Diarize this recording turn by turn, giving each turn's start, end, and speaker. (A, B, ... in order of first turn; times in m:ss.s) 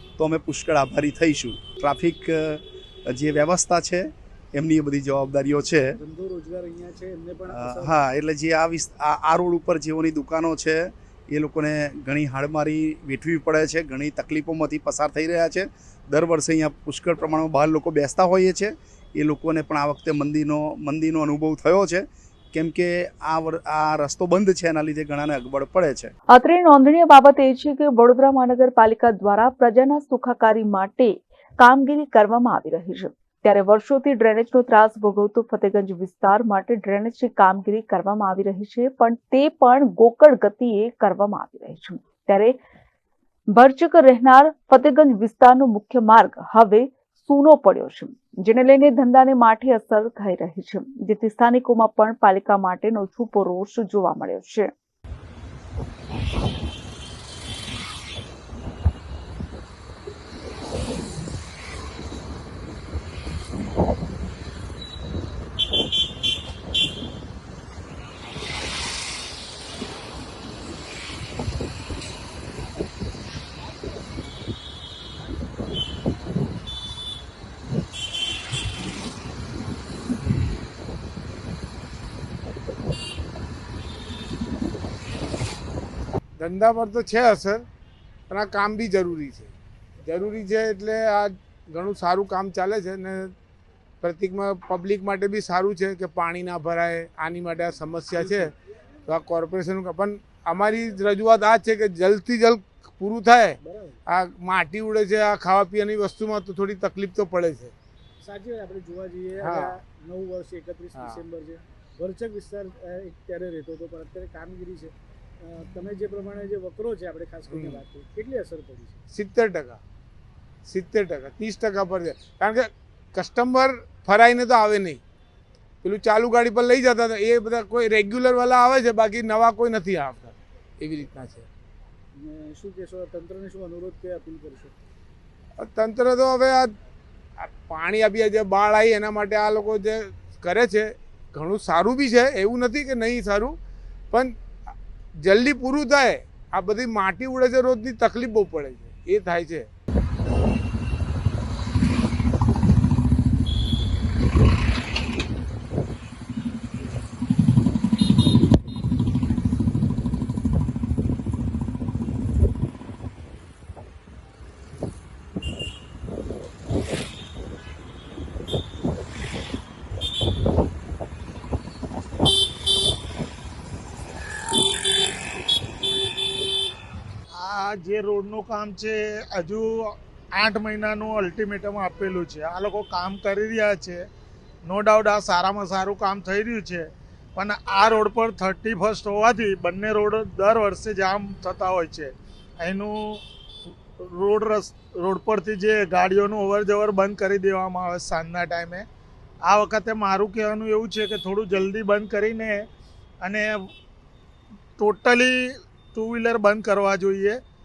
0:00.2-0:05.9 A
0:05.9-0:07.9 B
0:07.5-0:26.1 A
0:26.3-0:42.5 C
0:43.5-0:54.7 C
1:26.4-1:27.6 D
1:28.3-1:29.5 D
1:30.0-1:33.3 D
1:34.0-1:38.5 D
1:39.1-1:47.7 D
1:43.6-1:44.0 B
1:48.2-1:59.0 B
1:49.4-1:49.8 D
1:51.0-1:51.2 D
1:57.5-1:57.8 D
1:59.1-1:59.8 D
2:00.7-2:05.0 D
2:05.8-2:11.5 D
2:12.2-2:14.8 B
2:15.6-2:16.7 D
2:17.4-2:23.6 D
2:25.2-2:29.7 D
2:57.4-3:04.0 E
3:04.6-3:13.2 E
3:14.0-3:18.8 E
3:19.5-3:22.6 E
3:23.2-3:23.5 E
3:24.8-3:25.4 E
3:25.9-3:27.4 E